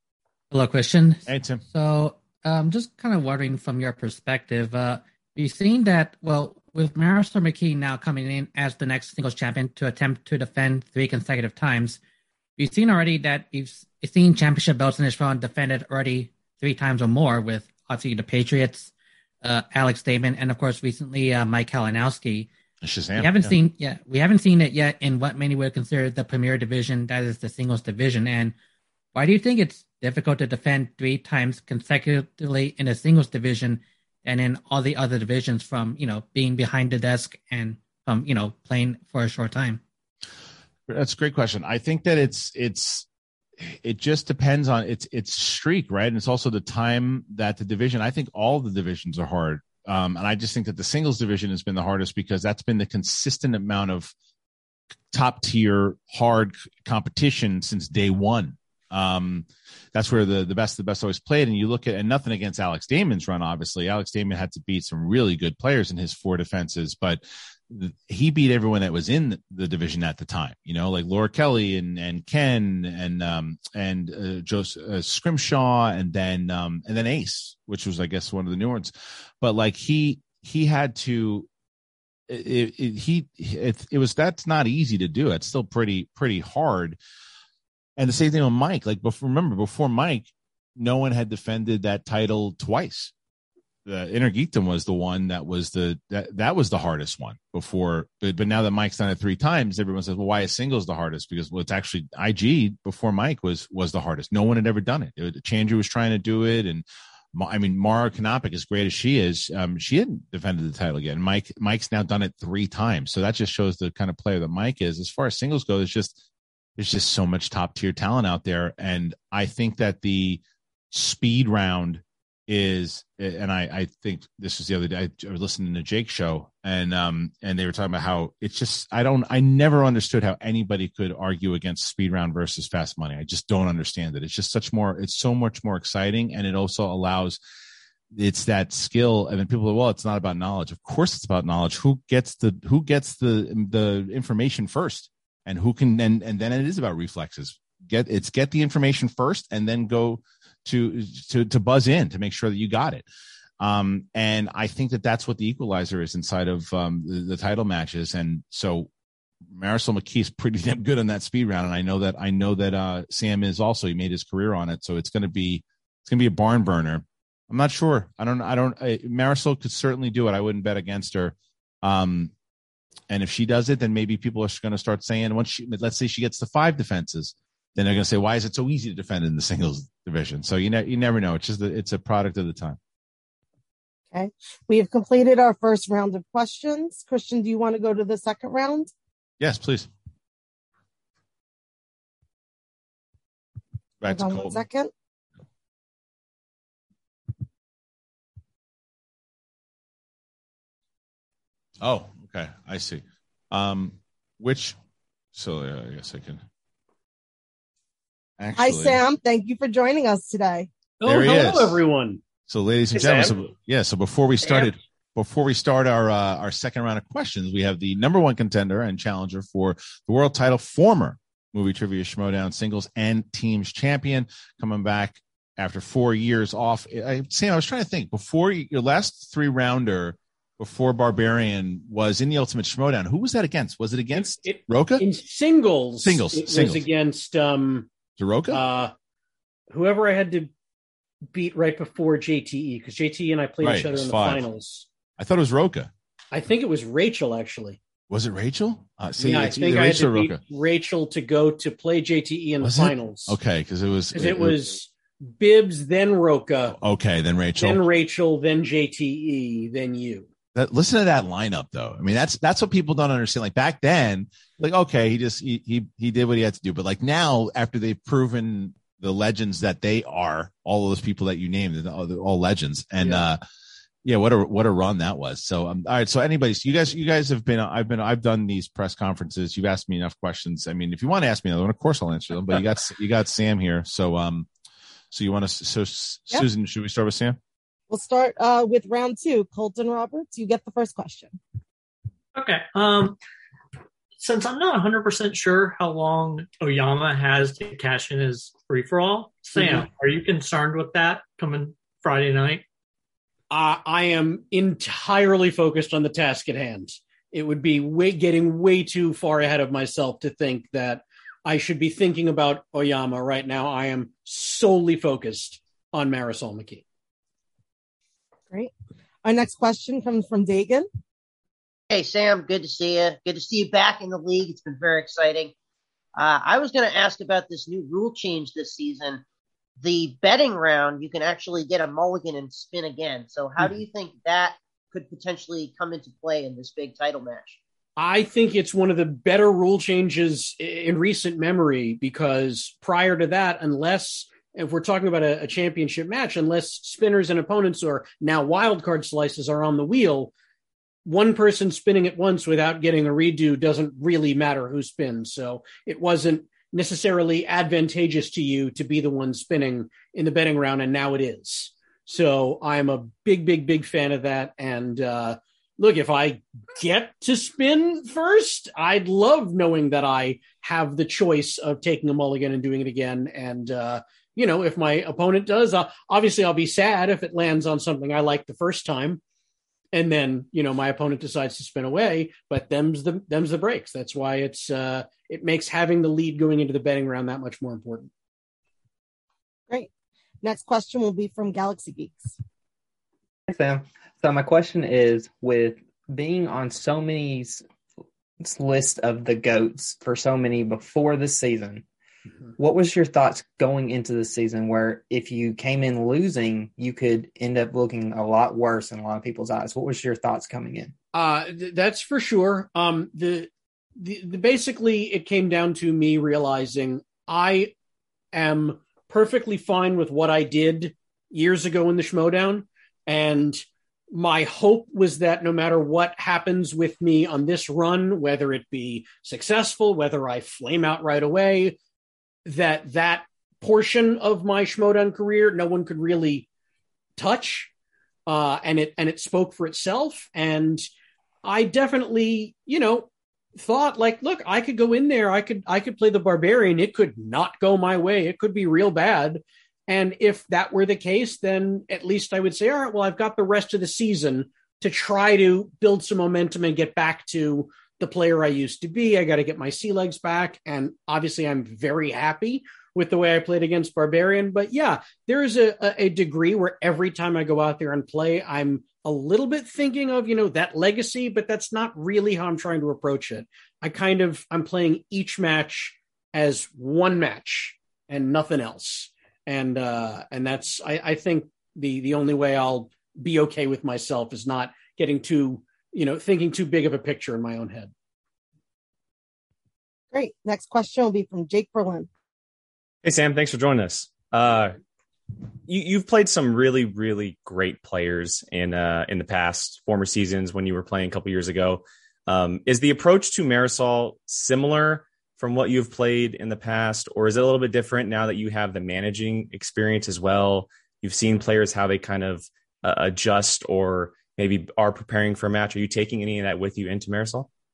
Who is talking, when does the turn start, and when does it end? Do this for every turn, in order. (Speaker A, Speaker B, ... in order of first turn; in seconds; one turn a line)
Speaker A: 0.5-12.0
Speaker B: 1.3-1.6
Speaker A: 12.6-22.5
Speaker B: 22.8-23.5
Speaker A: 23.2-28.5
Speaker A: 29.1-39.8
Speaker B: 40.9-43.0
Speaker B: 43.6-54.1
Speaker B: 55.1-81.5
Speaker B: 82.3-87.0
Speaker B: 88.0-93.1
Speaker B: 93.8-116.2
Speaker B: 116.8-137.4
Speaker B: 138.1-153.0
Speaker B: 153.6-158.9
Speaker B: 159.5-172.3
Speaker B: 173.1-182.8
Speaker C: 184.1-188.9
Speaker B: 189.4-189.9
Speaker B: 194.0-194.6
Speaker C: 194.1-194.9
Speaker B: 201.8-204.8
Speaker B: 205.3-206.4
Speaker B: 208.4-209.0
Speaker C: 208.6-210.7
Speaker D: 211.0-212.2
Speaker B: 211.1-211.8
Speaker B: 212.5-235.0
Speaker D: 212.9-213.4
Speaker D: 214.4-214.7
Speaker D: 234.2-237.9
Speaker B: 236.0-236.8
Speaker B: 238.2-238.6
Speaker D: 238.5-238.9
Speaker D: 239.7-240.5
Speaker D: 241.3-244.8
Speaker B: 243.6-244.4
Speaker B: 245.2-245.9
Speaker D: 246.3-247.8
Speaker B: 248.1-250.4
Speaker D: 249.2-253.4
Speaker B: 252.6-254.6
Speaker D: 254.1-256.8
Speaker B: 256.7-257.8
Speaker D: 257.6-260.3
Speaker B: 260.5-273.4
Speaker B: 274.0-284.5
Speaker B: 285.1-287.4
Speaker C: 287.9-291.4
Speaker E: 292.3-293.2
Speaker E: 294.2-302.6
Speaker D: 303.5-316.8
Speaker C: 319.2-320.9
Speaker F: 321.9-325.5
Speaker F: 326.1-329.2
Speaker F: 329.8-337.6
Speaker D: 338.0-350.3
Speaker D: 351.0-379.2
Speaker D: 379.9-388.1
Speaker C: 390.4-392.3
Speaker G: 393.5-397.6
Speaker G: 398.4-401.8
Speaker G: 402.6-410.9
Speaker D: 411.1-417.7
Speaker D: 418.3-431.8
Speaker D: 432.4-436.5
Speaker D: 437.2-437.7
Speaker D: 438.3-440.9
Speaker D: 441.4-487.9
Speaker C: 490.1-492.1
Speaker H: 493.0-494.8
Speaker H: 495.6-517.5